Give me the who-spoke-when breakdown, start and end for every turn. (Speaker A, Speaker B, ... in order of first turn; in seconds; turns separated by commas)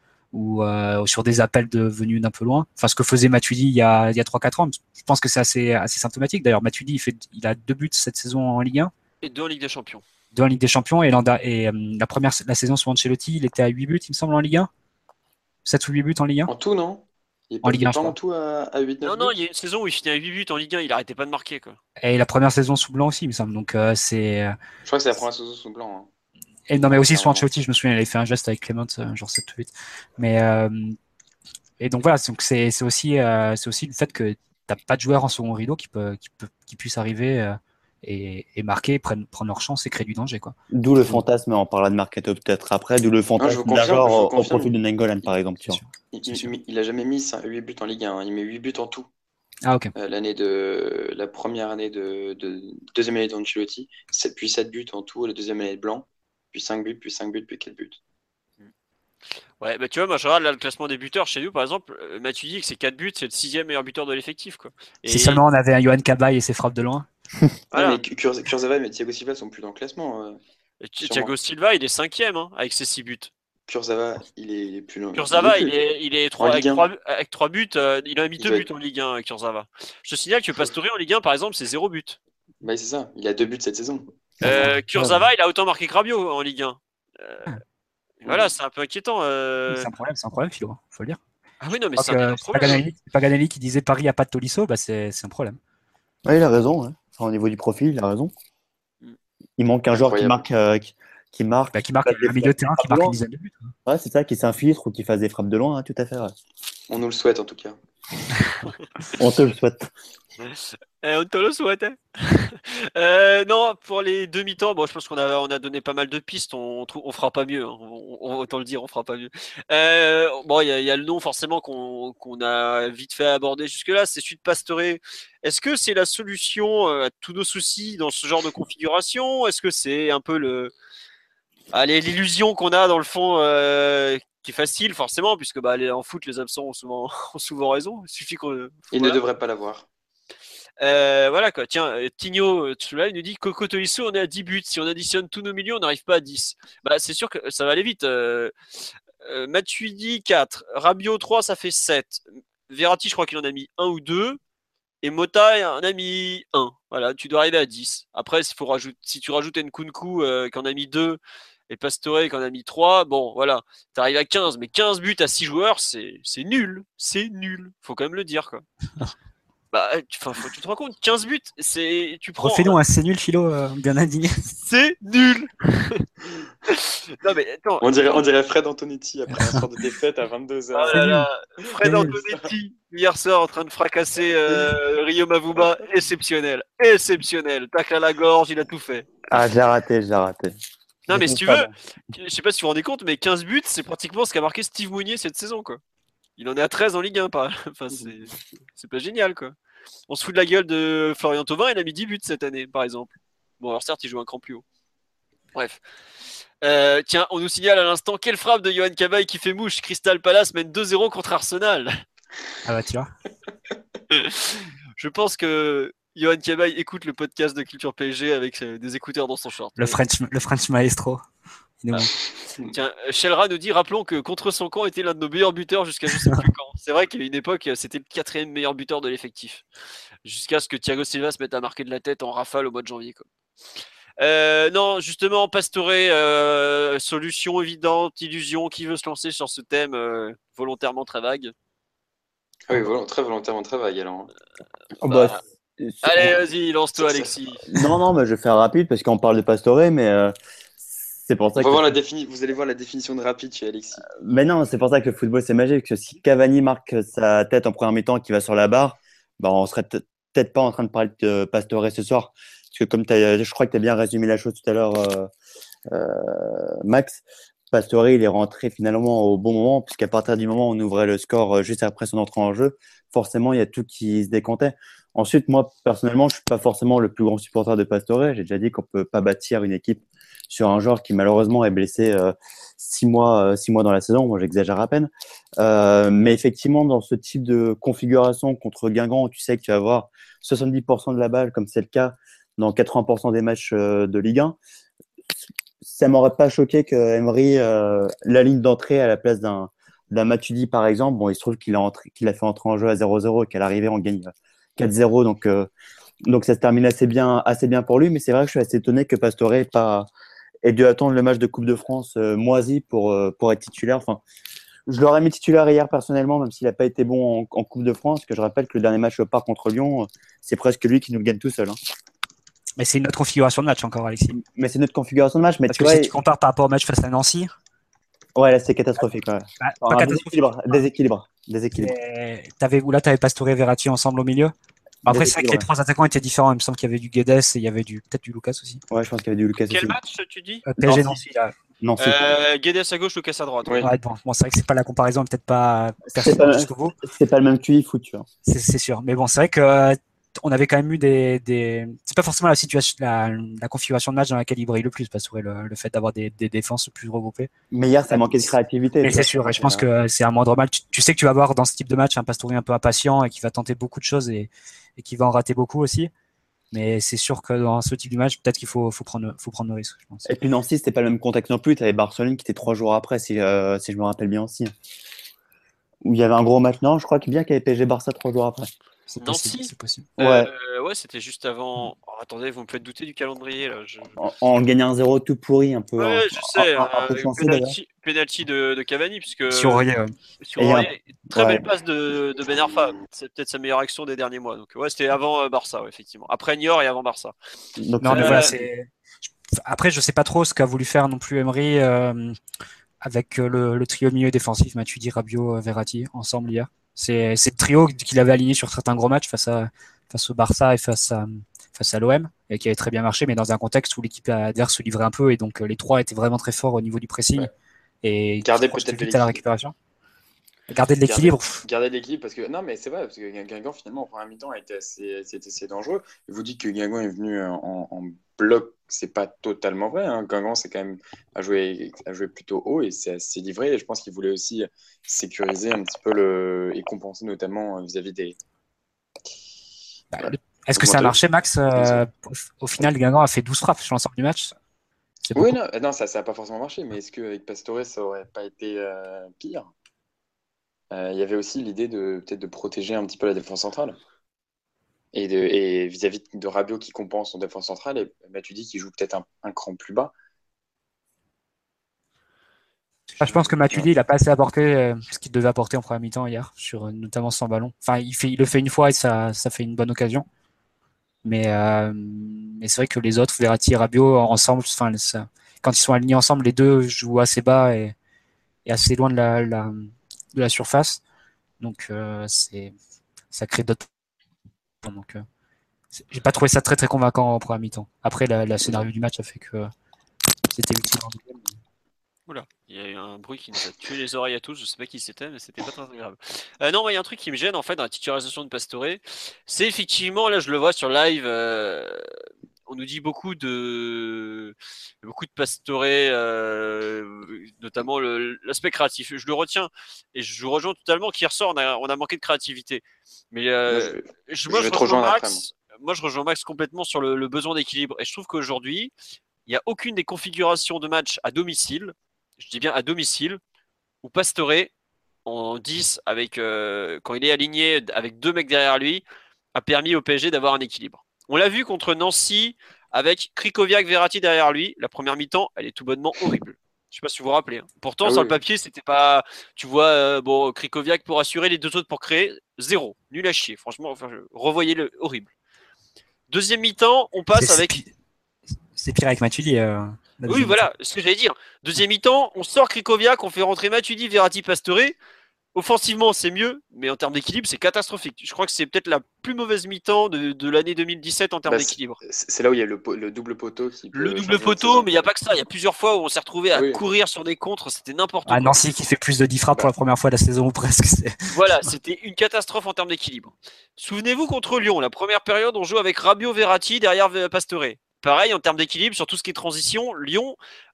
Speaker A: 0.3-8.9, Speaker B: 9.2-10.0, Speaker A: 10.3-14.7, Speaker A: 15.7-16.5, Speaker C: 16.5-19.3, Speaker A: 17.6-18.1, Speaker B: 19.0-21.8, Speaker A: 22.0-24.6, Speaker C: 24.8-26.1, Speaker A: 26.7-30.9, Speaker C: 26.8-27.5, Speaker A: 31.8-40.5, Speaker D: 40.7-45.8, Speaker C: 43.4-44.7, Speaker A: 45.7-46.5, Speaker C: 46.1-49.1, Speaker A: 49.6-49.9, Speaker C: 50.0-58.0, Speaker B: 59.6-65.4, Speaker A: 65.0-67.1, Speaker B: 67.7-68.0, Speaker C: 67.7-70.4, Speaker B: 70.8-73.3, Speaker C: 71.0-71.3, Speaker C: 73.7-75.8, Speaker B: 75.1-82.2, Speaker C: 76.4-76.8, Speaker C: 78.4-78.7, Speaker C: 82.6-84.6, Speaker A: 84.4-85.2, Speaker B: 84.4-87.5, Speaker B: 88.2-89.9, Speaker A: 89.7-91.2, Speaker B: 91.6-92.8, Speaker A: 92.0-95.6, Speaker D: 96.2-98.3, Speaker D: 99.6-103.2, Speaker C: 99.9-100.5, Speaker A: 101.7-103.7, Speaker D: 103.8-106.3, Speaker C: 106.9-107.8, Speaker D: 109.2-109.9, Speaker B: 111.0-130.7, Speaker B: 131.7-139.2, Speaker C: 138.9-139.8, Speaker B: 140.8-148.5, Speaker B: 149.2-154.4, Speaker B: 155.0-168.6, Speaker B: 169.7-172.8, Speaker A: 172.4-174.5, Speaker B: 174.6-176.0, Speaker B: 176.7-177.8, Speaker C: 177.8-181.1, Speaker B: 180.7-189.1, Speaker A: 180.9-181.3, Speaker A: 181.8-182.1, Speaker D: 189.3-190.5, Speaker B: 191.1-195.8, Speaker D: 191.1-191.7, Speaker B: 196.4-199.5, Speaker B: 200.1-204.6, Speaker B: 205.5-205.8, Speaker B: 206.6-212.0, Speaker A: 212.6-213.1, Speaker B: 214.1-220.0, Speaker A: 219.8-221.2, Speaker A: 221.8-222.1, Speaker B: 222.6-229.6, Speaker B: 230.2-233.2, Speaker B: 234.2-241.5, Speaker C: 242.7-244.3, Speaker B: 245.0-245.4, Speaker D: 245.0-246.3, Speaker B: 246.0-247.7, Speaker C: 247.0-247.3, Speaker D: 247.7-250.3, Speaker D: 250.9-251.9, Speaker C: 251.6-254.1, Speaker D: 254.1-265.3, Speaker D: 265.9-294.6, Speaker D: 295.8-305.7, Speaker D: 306.2-310.1, Speaker D: 310.6-314.2, Speaker D: 314.9-321.8, Speaker A: 322.8-324.4, Speaker D: 324.3-326.1, Speaker A: 325.7-327.6, Speaker D: 328.4-331.9, Speaker A: 329.6-330.8, Speaker A: 331.8-334.5, Speaker D: 335.0-335.6, Speaker A: 335.0-338.8, Speaker D: 338.9-340.0, Speaker B: 339.6-340.6, Speaker A: 340.7-341.6, Speaker D: 340.8-341.2, Speaker D: 341.8-342.3, Speaker B: 342.0-343.8, Speaker C: 343.6-343.9, Speaker A: 343.8-346.9, Speaker D: 346.1-348.2, Speaker A: 348.4-357.5, Speaker D: 357.7-359.9, Speaker A: 359.0-366.1, Speaker A: 366.7-370.3, Speaker D: 370.2-374.7, Speaker D: 376.0-378.7, Speaker A: 379.1-380.1, Speaker B: 379.2-384.1, Speaker D: 380.2-380.5, Speaker D: 384.2-387.7, Speaker B: 386.0-389.9, Speaker A: 389.5-390.1, Speaker B: 390.4-397.3, Speaker D: 390.6-391.6, Speaker D: 397.8-398.5, Speaker A: 398.0-398.9, Speaker B: 398.1-398.6, Speaker A: 399.6-402.4, Speaker A: 403.0-417.5, Speaker A: 418.0-419.7, Speaker C: 418.4-419.4, Speaker A: 420.7-421.6, Speaker C: 421.0-438.4, Speaker A: 440.1-444.5, Speaker C: 440.2-441.1, Speaker C: 441.7-442.0, Speaker A: 445.3-445.6, Speaker C: 445.3-449.7, Speaker C: 450.9-454.0, Speaker C: 455.1-460.1, Speaker A: 463.1-470.2, Speaker C: 463.2-463.9, Speaker A: 471.2-477.9, Speaker A: 478.6-481.0, Speaker A: 481.6-482.7, Speaker A: 483.3-483.9, Speaker A: 484.8-485.2, Speaker A: 485.9-489.7, Speaker A: 490.5-491.6, Speaker B: 492.3-502.0, Speaker B: 502.7-518.9, Speaker C: 513.7-515.4, Speaker B: 519.5-523.4, Speaker B: 524.0-524.7, Speaker B: 525.2-529.0, Speaker B: 529.5-545.3, Speaker C: 538.0-538.4, Speaker B: 546.3-547.8, Speaker A: 547.3-547.9, Speaker A: 548.8-550.6, Speaker B: 550.2-555.0, Speaker B: 555.5-562.0, Speaker C: 561.5-565.0, Speaker B: 563.9-568.6, Speaker C: 566.5-566.8, Speaker A: 568.3-571.7, Speaker B: 571.3-580.4